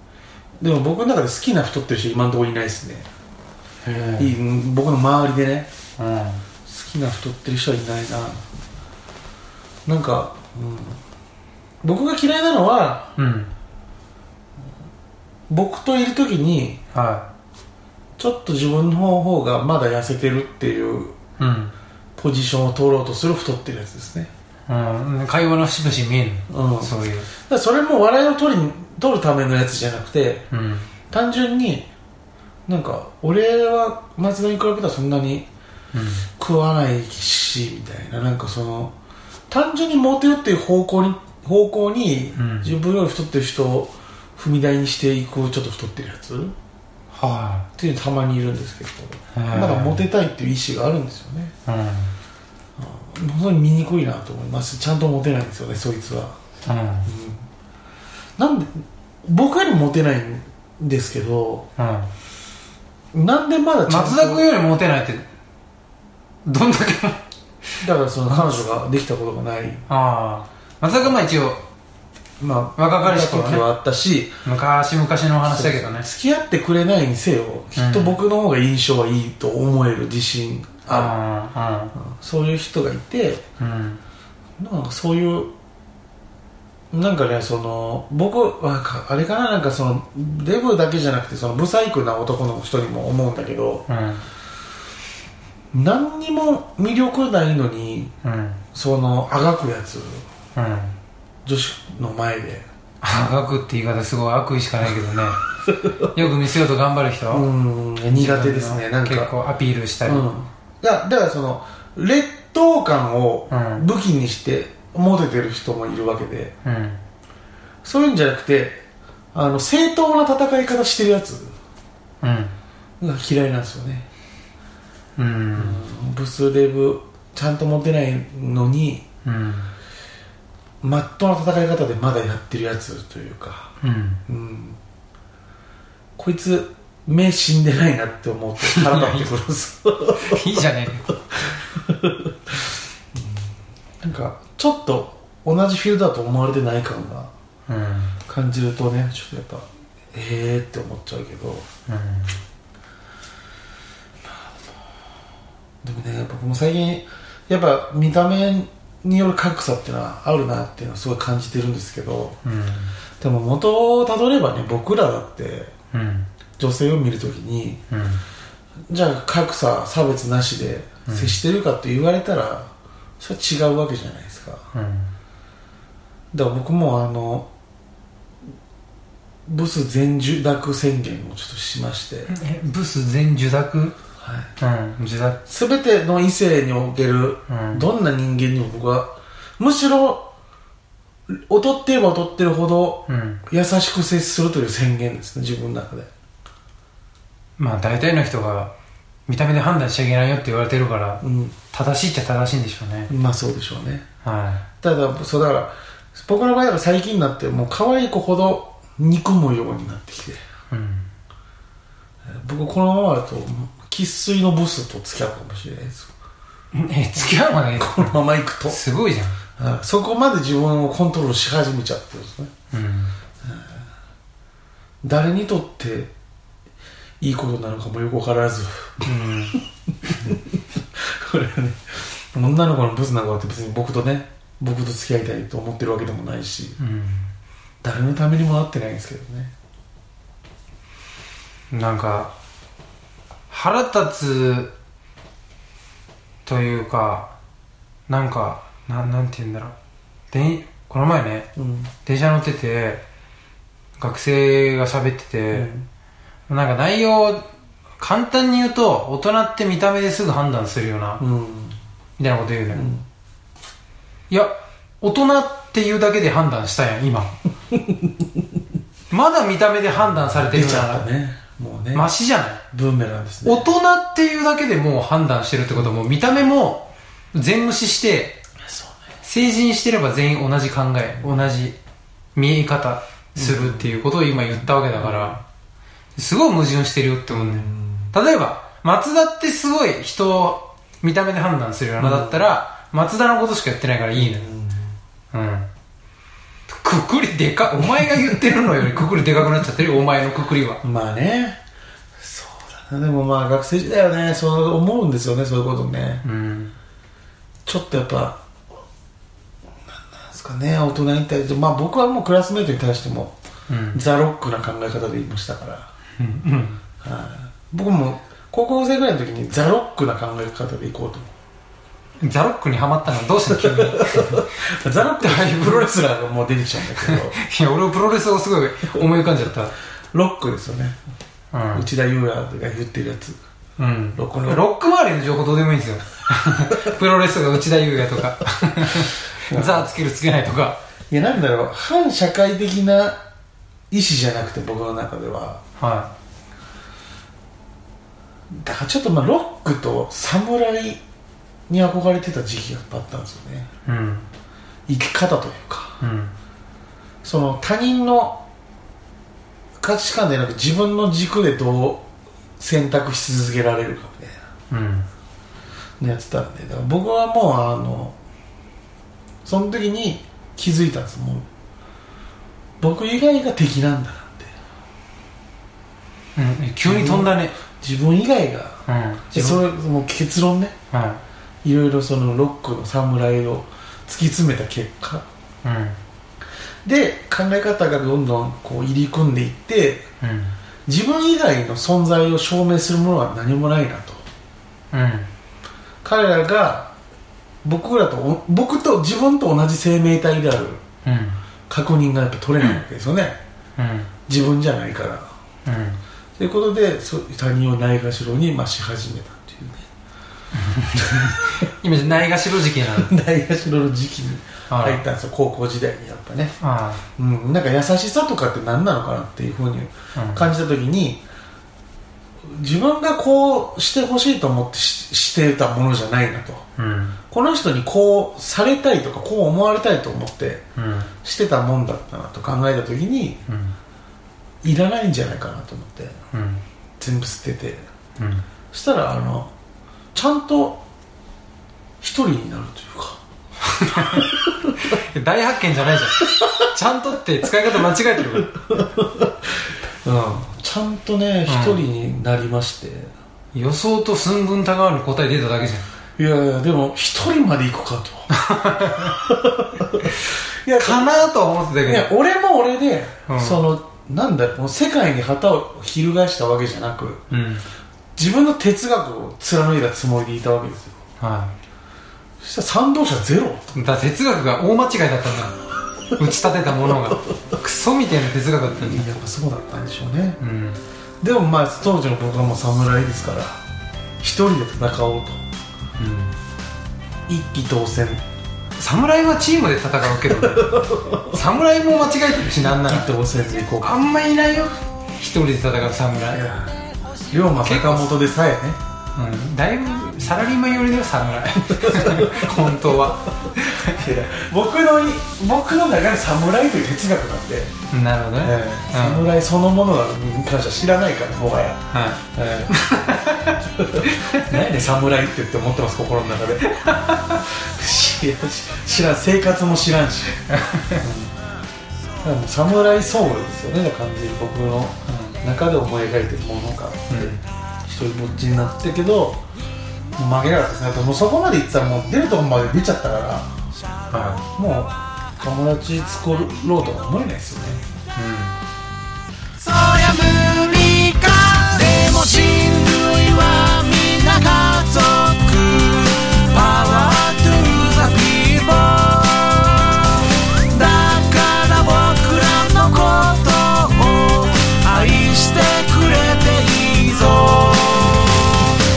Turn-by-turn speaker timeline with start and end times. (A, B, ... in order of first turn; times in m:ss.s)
0:00.6-0:03.1 A
0:03.8-0:04.3 B
0:04.2-0:05.7 A
0:06.0-0:06.4 B
0:06.6-0:08.4 A
0:09.8-0:11.0 A
0:11.8-0:13.1 A
0:13.2-0:13.5 B
0:15.5-0:16.8 A
0:16.9-0:17.3 B
0:18.2-0:21.2 A
0:21.4-0:21.7 B
0:22.2-0:24.3 A
0:24.7-0:27.3 B
0:26.5-0:26.9 A
0:27.5-0:30.4 A
0:30.5-0:30.9 B
0:31.1-0:31.9 A
0:32.7-0:35.5 A
0:35.9-0:36.2 B
0:36.4-0:38.9 A
0:39.5-0:46.5 A
0:42.4-0:42.7 B
0:47.1-0:47.7 B
0:47.8-0:51.5 A
0:49.3-0:50.0 B
0:51.6-0:52.1 B
0:52.8-0:56.4 A
0:56.6-0:57.1 B
0:57.0-0:57.4 A
0:58.4-1:01.7 A
1:01.8-1:02.1 B
1:03.1-1:04.5 A
1:03.9-1:05.2 B
1:06.4-1:07.2 B
1:07.8-1:09.8 A
1:08.3-1:08.6 B
1:09.9-1:11.6 B
1:10.9-1:11.2 A
1:12.4-1:14.4 A
1:12.8-1:13.6 B
1:14.4-1:16.1 B
1:15.4-1:21.2 A
1:17.8-1:18.2 B
1:20.9-1:21.9 B
1:22.0-1:23.4 A
1:23.6-1:24.0 B
1:24.6-1:25.5 A
1:26.9-1:33.8 A
1:33.9-1:34.2 B
1:35.7-1:38.1 A
1:38.2-1:38.6 B
1:38.7-1:40.2 A
1:40.6-1:41.0 B
1:41.4-1:42.6 A
1:43.0-1:45.4 B
1:46.0-1:47.4 B
1:47.3-1:49.3 A
1:48.1-1:50.3 B
1:50.0-1:56.5 A
1:53.5-1:53.8 B
1:56.6-1:57.0 B
1:57.8-2:01.5 A
2:02.2-2:02.5 B
2:03.0-2:04.1 A
2:05.2-2:05.8 B
2:05.6-2:09.0 A
2:09.2-2:09.7 B
2:10.8-2:13.7 A
2:13.8-2:14.2 B
2:14.3-2:14.8 A
2:16.2-2:20.5 A
2:18.6-2:19.3 B
2:20.1-2:21.4 B
2:21.7-2:22.5 A
2:23.1-2:23.4 A
2:24.0-2:27.3 A
2:27.7-2:28.2 B
2:28.3-2:31.6 A
2:31.9-2:32.4 B
2:35.8-2:42.4 A
2:42.4-2:42.9 B
2:43.2-2:45.7 A
2:45.9-2:46.3 B
2:46.6-2:47.8 A
2:47.9-2:48.2 B
2:48.9-2:54.6 A
2:51.0-2:51.4 B
2:54.7-2:55.1 B
2:56.3-2:57.5 A
2:59.4-3:02.3 A
3:02.3-3:04.0 B
3:04.2-3:04.5 A
3:04.6-3:05.4 B
3:05.5-3:10.3 A
3:07.5-3:07.9 B
3:11.3-3:16.1 A
3:13.1-3:13.4 B
3:17.6-3:18.7 B
3:19.3-3:23.1 B
3:21.2-3:21.6 A
3:23.1-3:24.0 A
3:24.2-3:24.6 B
3:24.8-3:30.4 A
3:30.7-3:31.1 B
3:32.3-3:36.1 A
3:36.7-3:39.4 B
3:37.8-3:38.8 A
3:39.6-3:42.5 A
3:42.7-3:43.1 B
3:43.4-3:43.8 A
3:45.0-3:46.1 A
3:47.2-3:49.1 A
3:49.0-3:49.6 B
3:50.1-3:50.4 A
3:51.0-3:56.8 A
3:56.8-3:57.3 B
3:57.8-3:59.5 A
4:01.7-4:02.3 B
4:03.5-4:04.7 B
4:06.4-4:07.3 B
4:08.1-4:09.7 B
4:10.3-4:11.5 B
4:11.6-4:11.9 A
4:12.0-4:13.0 B
4:14.0-4:15.7 B
4:15.5-4:15.9 A
4:16.5-4:17.5 B
4:18.0-4:21.2 B
4:21.2-4:21.8 A
4:22.2-4:22.8 B
4:22.7-4:23.0 A
4:24.3-4:27.3 B
4:29.1-4:31.1 B
4:30.4-4:32.1 A
4:31.9-4:32.6 B
4:32.7-4:33.7 A
4:33.4-4:38.4 B
4:38.6-4:38.9 A
4:39.2-4:41.8 B
4:42.3-4:45.4 B
4:43.4-4:45.4 A
4:46.2-4:54.5 B
4:47.3-4:48.1 A
4:52.0-4:52.5 A
4:54.1-4:54.9 A
4:55.3-4:55.7 B
4:56.7-5:00.8 B
5:00.8-5:01.6 A
5:02.2-5:06.2 A
5:06.2-5:06.7 B
5:07.6-5:08.4 A
5:09.9-5:13.3 A
5:13.7-5:14.0 B
5:13.9-5:15.9 A
5:16.2-5:16.8 B
5:17.0-5:21.3 A
5:22.2-5:24.5 B
5:23.4-5:27.4 A
5:25.1-5:25.9 B
5:26.9-5:29.7 B
5:30.1-5:31.0 A
5:31.5-5:31.9 B
5:31.7-5:33.4 A
5:33.8-5:40.8 B
5:34.2-5:34.6 A
5:39.5-5:39.9 A
5:41.1-5:43.2 A
5:43.9-5:45.6 A
5:45.8-5:46.1 B
5:48.5-5:51.0 A
5:51.7-5:53.7 A
5:53.8-5:54.3 B
5:54.9-5:56.0 A
5:56.0-5:56.3 B
5:57.2-5:58.4 A
5:59.8-6:02.1 A
6:02.6-6:04.4 A
6:04.7-6:05.1 B
6:06.0-6:08.2 A
6:09.4-6:11.4 A
6:12.8-6:14.5 A
6:16.4-6:17.6 B
6:16.8-6:20.7 A
6:18.9-6:19.6 B
6:20.9-6:21.2 B
6:21.6-6:25.2 A
6:25.6-6:26.0 B
6:26.8-6:30.1 A
6:30.2-6:30.5 B
6:30.9-6:34.2 A
6:34.9-6:35.3 B
6:36.0-6:36.9 A
6:37.6-6:40.8 A
6:41.0-6:41.4 B
6:41.7-6:43.4 A
6:43.8-6:44.1 B
6:44.3-6:45.3 A
6:45.6-6:46.0 B
6:46.4-6:49.8 A
6:50.5-6:53.1 B
6:51.0-6:51.4 A
6:52.8-6:56.5 A
6:54.7-6:55.0 B
6:56.6-6:57.0 B
6:57.2-7:01.2 A
7:00.1-7:00.5 B
7:02.5-7:06.6 A
7:06.8-7:07.2 B
7:07.3-7:10.6 A
7:10.8-7:11.1 B
7:11.2-7:13.4 A
7:13.5-7:13.7 B
7:14.6-7:16.2 A
7:16.3-7:16.6 B
7:17.0-7:17.8 A
7:18.2-7:18.4 B
7:18.7-7:19.5 A
7:20.1-7:20.8 A
7:22.0-7:23.2 A
7:23.6-7:28.6 B
7:28.6-7:29.3 A
7:30.0-7:33.1 A
7:31.5-7:31.8 B
7:33.5-7:35.8 B
7:36.2-7:38.3 A
7:38.3-7:39.2 B
7:38.9-7:41.1 A
7:40.8-7:42.1 B
7:41.8-7:47.2 A
7:43.3-7:43.6 B
7:47.3-7:47.6 B
7:48.2-7:51.0 A
7:51.2-7:51.5 B
7:52.4-7:53.7 A
7:53.7-7:55.6 B
7:56.1-7:59.1 B
7:58.7-8:00.4 A
8:00.4-8:00.8 B
8:01.2-8:03.6 A
8:04.2-8:05.4 A
8:06.0-8:06.3 B
8:07.3-8:08.2 A
8:08.8-8:13.1 B
8:10.3-8:11.4 A
8:12.4-8:14.0 A
8:13.8-8:16.4 B
8:16.3-8:18.8 A
8:17.6-8:18.1 B
8:19.1-8:24.0 B
8:21.9-8:22.7 A
8:23.9-8:27.7 A
8:27.9-8:29.3 B
8:28.4-8:31.8 A
8:31.9-8:34.5 B
8:32.3-8:32.7 A
8:33.8-8:40.3 A
8:36.7-8:37.4 B
8:40.5-8:41.0 B
8:41.0-8:41.3 A
8:42.2-8:49.4 A
8:45.1-8:45.4 B
8:47.1-8:47.4 B
8:50.2-8:53.6 A
8:54.1-8:54.4 B
8:54.3-8:57.8 A
8:58.2-8:58.6 B
8:59.7-9:09.8 C
9:10.7-9:18.4 C